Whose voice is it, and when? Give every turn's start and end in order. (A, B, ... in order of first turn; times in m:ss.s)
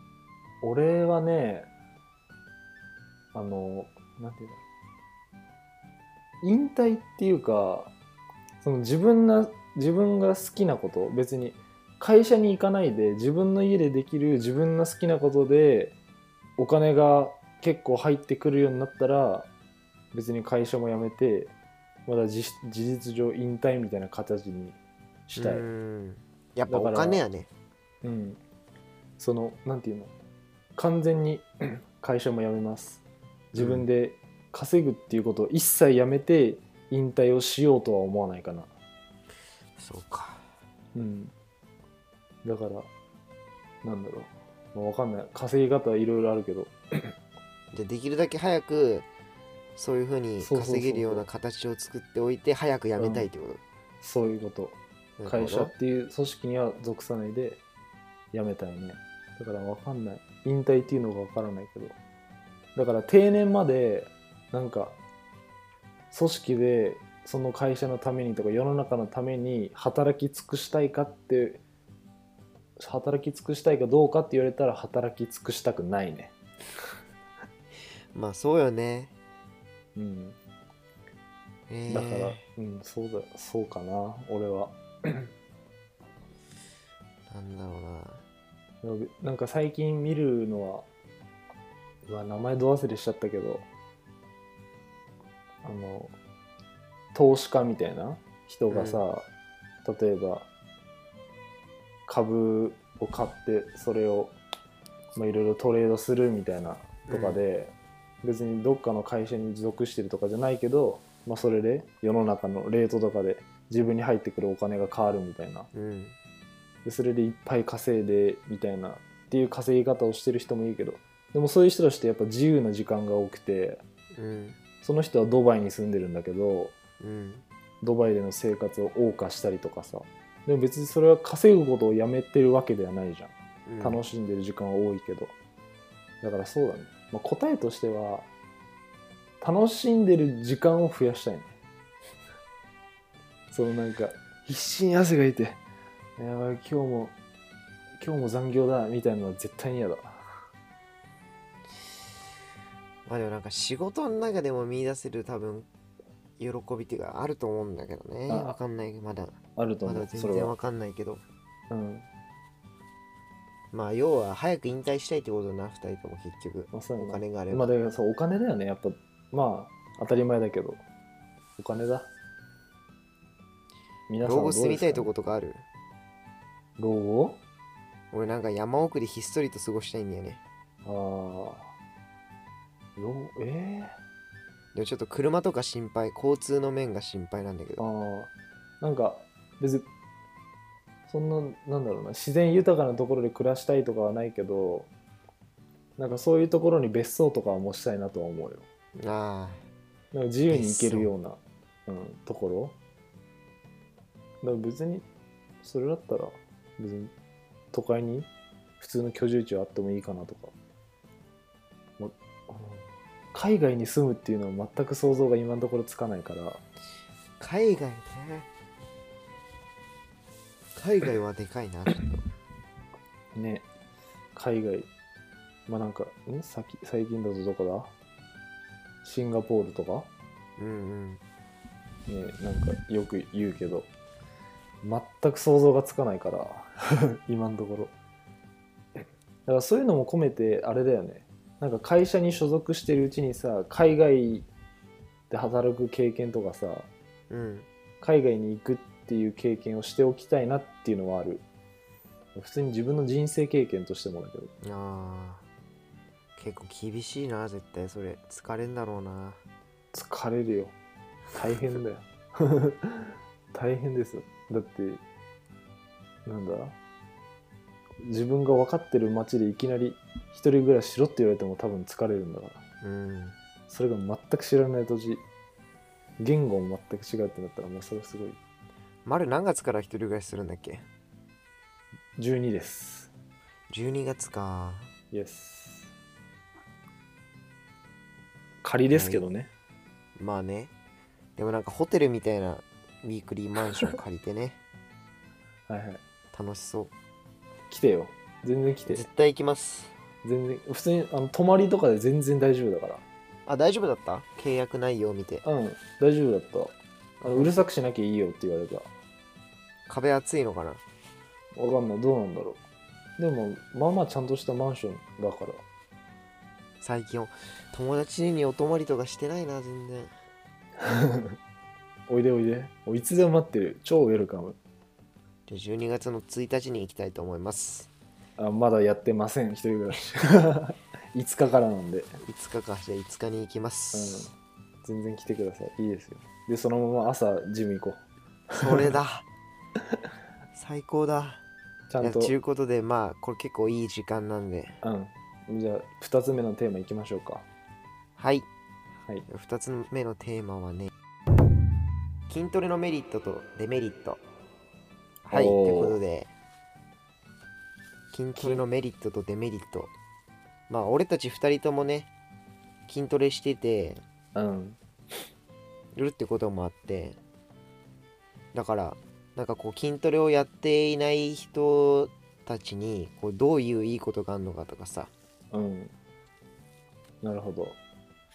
0:00.6-0:01.7 A
0:03.3-0:04.6 A
0:06.4-0:07.9 A
0:08.6-0:15.9 A
0:16.6-0:19.5 A
0:20.1-0:21.5 A
0:22.0-0:24.8 A
0:25.3-0:25.7 A
0:25.4-0:27.5 B
0:26.7-0:27.2 A
0:28.0-0:28.4 A
0:29.2-0:30.1 A
0:30.8-0:33.0 A
0:33.5-0:38.7 A
0:33.6-0:33.8 B
0:39.8-0:40.5 B
0:40.9-0:41.3 A
0:42.4-0:42.9 A
0:43.8-0:47.1 A
0:47.7-0:49.1 B
0:49.8-0:53.6 B
0:50.4-0:51.2 A
0:53.0-0:53.3 A
0:54.0-0:57.6 A
0:55.2-0:55.7 B
0:58.3-1:01.9 A
1:02.7-1:05.0 A
1:06.1-1:11.6 A
1:12.8-1:16.3 A
1:18.1-1:19.1 B
1:20.0-1:20.4 A
1:21.7-1:22.4 B
1:21.9-1:25.3 A
1:27.3-1:28.2 B
1:28.8-1:30.8 A
1:32.0-1:33.7 A
1:35.6-1:36.1 A
1:37.1-1:39.3 A
1:38.7-1:39.0 B
1:39.8-1:40.5 A
1:42.1-1:44.4 A
1:45.1-1:55.7 A
1:47.1-1:47.4 B
1:55.7-1:56.2 B
1:56.8-2:03.8 A
2:04.1-2:04.6 B
2:04.8-2:06.8 A
2:07.0-2:07.4 B
2:07.8-2:15.3 A
2:13.6-2:14.0 B
2:16.2-2:18.3 A
2:19.4-2:21.5 A
2:23.5-2:25.6 A
2:26.2-2:27.2 A
2:28.0-2:30.2 A
2:33.0-2:35.7 B
2:36.4-2:41.2 B
2:38.3-2:38.6 A
2:39.6-2:40.6 A
2:41.7-2:42.1 A
2:43.7-2:47.7 B
2:46.7-2:50.8 A
2:51.6-2:52.1 A
2:54.1-2:55.1 A
2:54.2-2:55.6 B
2:56.8-2:57.4 A
2:58.1-3:00.4 B
3:00.8-3:01.7 A
3:03.0-3:03.9 A
3:04.7-3:07.8 B
3:07.8-3:09.9 A
3:11.1-3:14.9 A
3:16.0-3:18.6 A
3:19.0-3:19.6 B
3:20.1-3:22.8 A
3:20.5-3:21.1 B
3:24.4-3:25.0 A
3:25.6-3:27.1 A
3:27.7-3:30.5 A
3:32.0-3:36.6 A
3:37.4-3:38.5 B
3:40.7-3:42.3 B
3:43.3-3:43.6 A
3:44.3-3:44.9 A
3:45.7-3:47.9 A
3:49.0-3:50.1 A
3:50.6-3:51.2 B
3:52.1-3:53.9 A
3:54.8-3:57.9 A
3:59.4-4:04.5 A
4:05.3-4:06.9 A
4:07.3-4:07.7 B
4:08.0-4:11.4 A
4:12.4-4:14.5 A
4:14.6-4:15.4 B
4:16.4-4:19.4 B
4:19.9-4:20.8 A
4:21.3-4:25.0 A
4:26.2-4:26.8 A
4:28.0-4:32.6 A
4:32.8-4:33.4 B
4:33.7-4:35.2 A
4:36.2-4:38.4 A
4:39.0-4:40.8 B
4:42.2-4:43.1 A
4:43.7-4:44.9 B
4:45.1-4:45.9 A
4:48.6-4:49.5 A
4:48.9-4:49.2 B
4:50.2-4:50.7 B
4:51.4-4:54.6 B
4:55.7-4:56.0 A
4:56.3-4:56.9 B
4:57.7-4:59.1 A
4:58.9-4:59.9 B
5:00.2-5:03.0 A
5:03.4-5:05.4 B
5:05.4-5:08.9 A
5:07.2-5:07.6 B
5:09.9-5:10.8 B
5:11.6-5:12.6 A
5:13.2-5:15.6 A
5:16.8-5:20.1 B
5:20.8-5:21.4 A
5:22.1-5:24.6 A
5:25.5-5:27.9 B
5:28.4-5:32.2 A
5:32.2-5:34.3 B
5:33.9-5:34.3 A
5:34.8-5:38.9 A
5:38.6-5:39.2 B
5:40.5-5:41.4 B
5:41.9-5:42.3 A
5:42.0-5:44.8 B
5:44.8-5:47.4 A
5:48.2-5:48.5 B
5:49.3-5:50.9 B
5:52.3-5:54.2 B
5:55.2-5:56.3 B
5:55.3-5:56.0 A
5:58.1-5:59.9 B
6:00.7-6:02.1 B
6:02.9-6:04.0 B
6:04.3-6:04.8 A
6:05.9-6:07.2 B
6:08.5-6:15.1 B
6:15.5-6:15.9 A
6:17.2-6:17.8 A